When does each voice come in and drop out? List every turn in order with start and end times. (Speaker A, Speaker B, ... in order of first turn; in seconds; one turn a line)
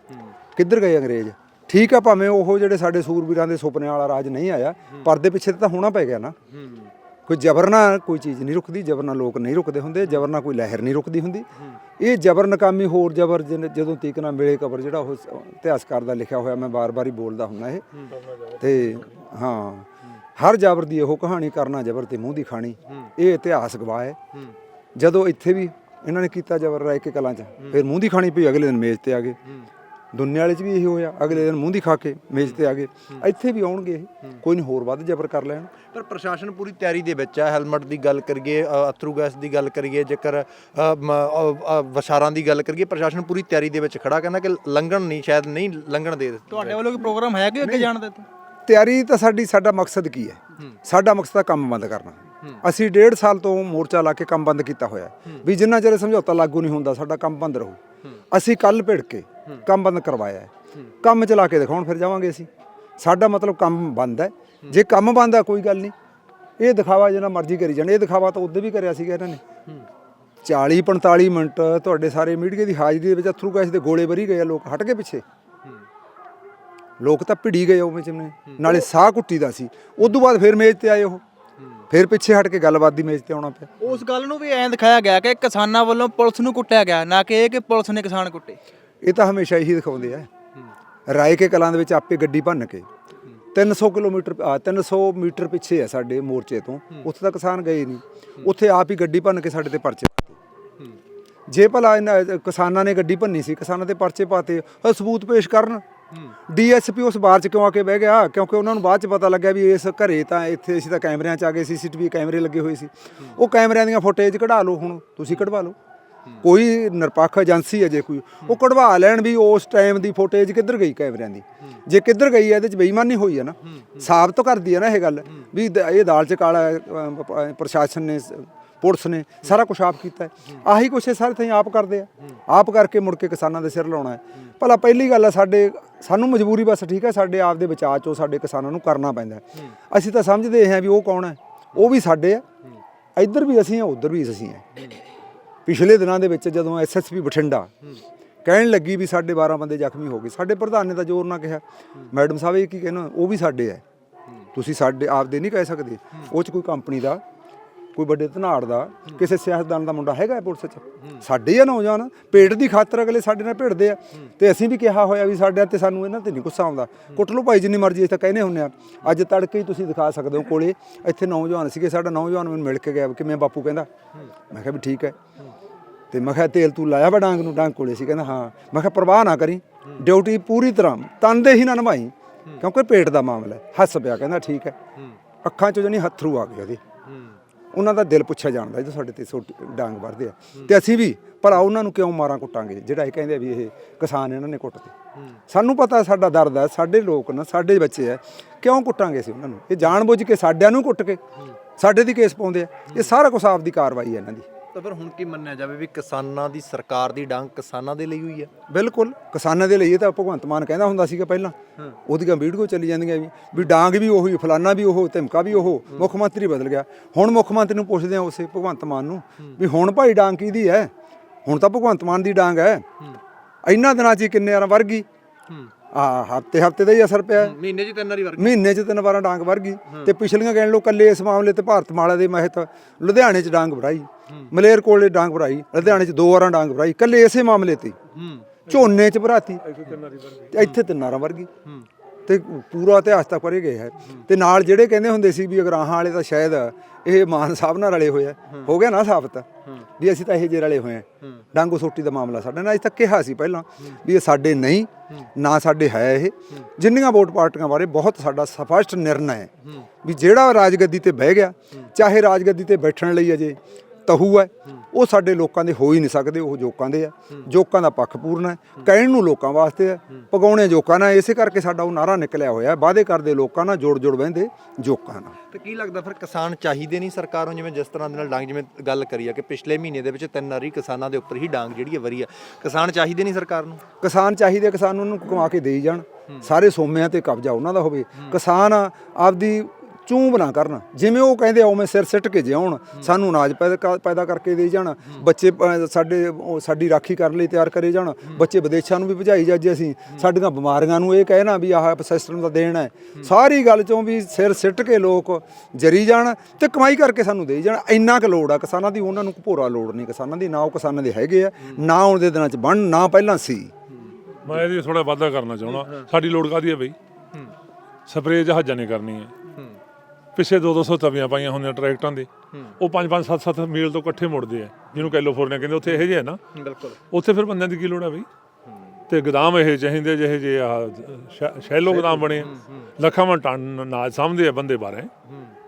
Speaker A: 0.6-6.3
Speaker B: 6.5-6.9
Speaker A: 7.3-11.5
Speaker A: 12.0-17.8
Speaker C: 18.1-19.1
Speaker A: 18.6-24.2
Speaker A: 24.9-29.4
Speaker A: 30.1-35.7
Speaker B: 35.9-47.0
Speaker D: 46.5-48.2
Speaker A: 47.6-47.9
Speaker A: 48.6-57.8
Speaker A: 58.3-60.5
Speaker A: 61.0-62.5
Speaker A: 63.0-65.9
Speaker A: 66.6-69.4
Speaker A: 70.4-75.2
Speaker A: 77.0-81.2
Speaker B: 78.5-78.7
Speaker A: 81.9-83.7
Speaker D: 83.8-88.6
Speaker A: 89.0-90.3
Speaker A: 91.1-92.8
Speaker A: 93.5-100.4
Speaker A: 101.5-105.8
Speaker A: 106.5-115.8
Speaker A: 116.4-142.4
Speaker B: 123.7-124.1
Speaker A: 143.2-144.6
Speaker A: 145.7-147.7
Speaker A: 148.4-153.8
Speaker A: 154.5-157.2
Speaker A: 157.9-173.9
Speaker A: 174.5-175.2
Speaker A: 176.1-184.8
Speaker A: 185.4-186.8
Speaker B: 187.1-187.4
Speaker A: 187.7-194.9
Speaker A: 195.5-201.2
Speaker A: 201.8-204.4
Speaker B: 204.7-208.5
Speaker A: 208.7-220.9
Speaker A: 221.4-222.8
Speaker A: 223.6-225.1
Speaker A: 225.9-227.6
Speaker B: 227.3-228.6
Speaker A: 228.4-237.9
Speaker B: 229.9-230.1
Speaker B: 238.1-238.6
Speaker A: 238.7-239.6
Speaker C: 239.6-240.5
Speaker A: 240.5-241.5
Speaker A: 242.2-249.5
Speaker A: 250.0-259.5
Speaker A: 260.0-275.3
Speaker B: 275.5-283.8
Speaker A: 284.0-313.7
Speaker C: 314.4-316.9
Speaker B: 315.8-316.0
Speaker C: 318.1-319.3
Speaker C: 320.4-326.4
Speaker B: 326.5-327.0
Speaker C: 327.1-328.3
Speaker C: 329.1-335.1
Speaker B: 331.9-332.9